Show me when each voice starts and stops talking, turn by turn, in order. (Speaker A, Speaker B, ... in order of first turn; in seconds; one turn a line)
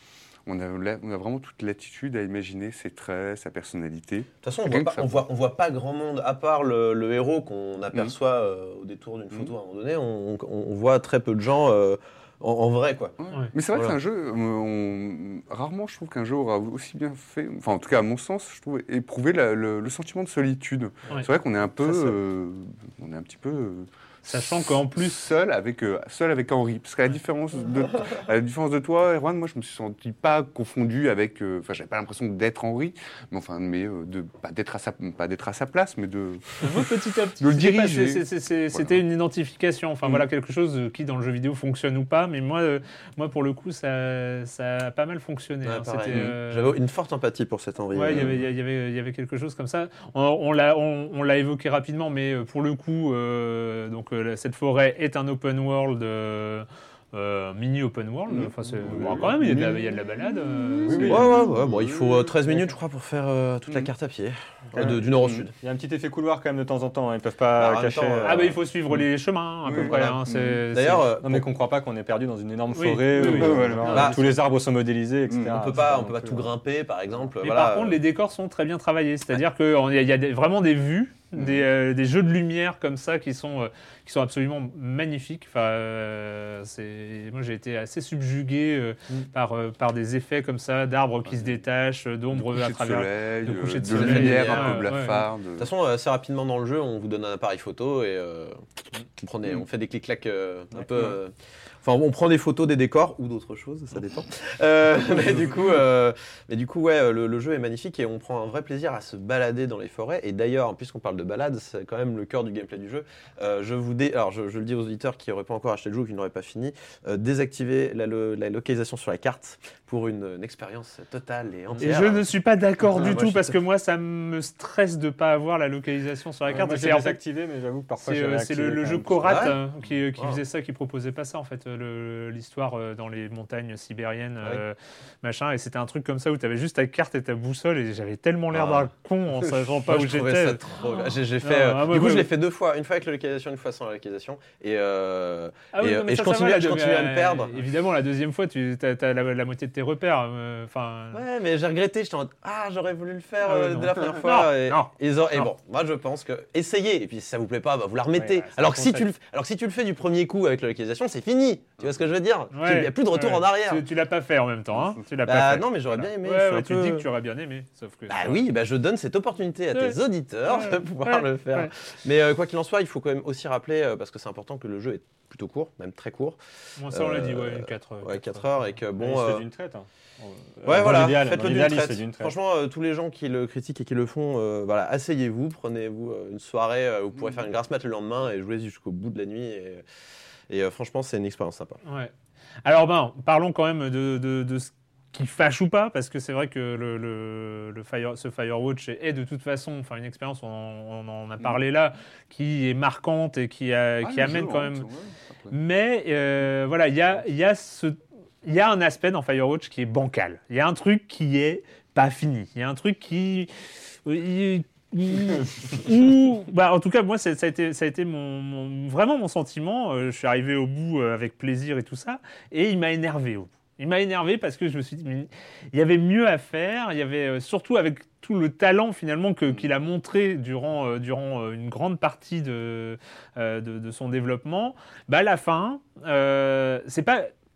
Speaker A: 0.5-5.2
Speaker B: 4.4-13.2
Speaker A: 13.2-39.0
Speaker B: 13.7-14.0
Speaker B: 21.8-22.2
Speaker C: 24.2-25.3
Speaker C: 36.6-46.7
Speaker B: 45.6-48.3
Speaker C: 47.9-61.3
Speaker A: 48.1-48.4
Speaker A: 58.3-59.3
Speaker B: 59.0-59.8
Speaker A: 60.5-62.6
Speaker D: 60.9-61.2
Speaker B: 61.0-65.5
Speaker D: 64.8-68.6
Speaker A: 64.8-65.4
Speaker B: 67.5-68.5
Speaker C: 68.2-71.1
Speaker A: 69.6-70.6
Speaker B: 69.8-70.2
Speaker B: 70.7-71.5
Speaker D: 71.2-76.5
Speaker C: 72.7-74.1
Speaker A: 73.2-74.2
Speaker B: 73.9-74.3
Speaker A: 75.3-75.6
Speaker B: 75.5-78.0
Speaker C: 77.4-95.3
Speaker A: 91.3-91.5
Speaker A: 92.3-95.7
Speaker B: 93.9-94.9
Speaker B: 95.6-98.6
Speaker B: 99.2-122.3
Speaker C: 121.8-127.2
Speaker B: 122.9-123.5
Speaker D: 126.5-129.5
Speaker C: 128.0-142.3
Speaker B: 129.2-129.6
Speaker B: 138.5-138.9
Speaker B: 139.5-147.7
Speaker C: 145.7-151.2
Speaker B: 151.1-163.8
Speaker C: 153.4-155.5
Speaker C: 158.1-159.1
Speaker C: 162.5-168.4
Speaker B: 165.3-167.1
Speaker B: 168.1-176.4
Speaker C: 169.7-171.7
Speaker C: 176.8-178.7
Speaker B: 176.9-179.4
Speaker D: 179.0-182.4
Speaker B: 180.7-189.8
Speaker B: 190.5-191.8
Speaker C: 191.8-192.1
Speaker C: 192.7-204.9
Speaker A: 204.0-205.6
Speaker C: 205.5-213.5
Speaker C: 214.1-237.3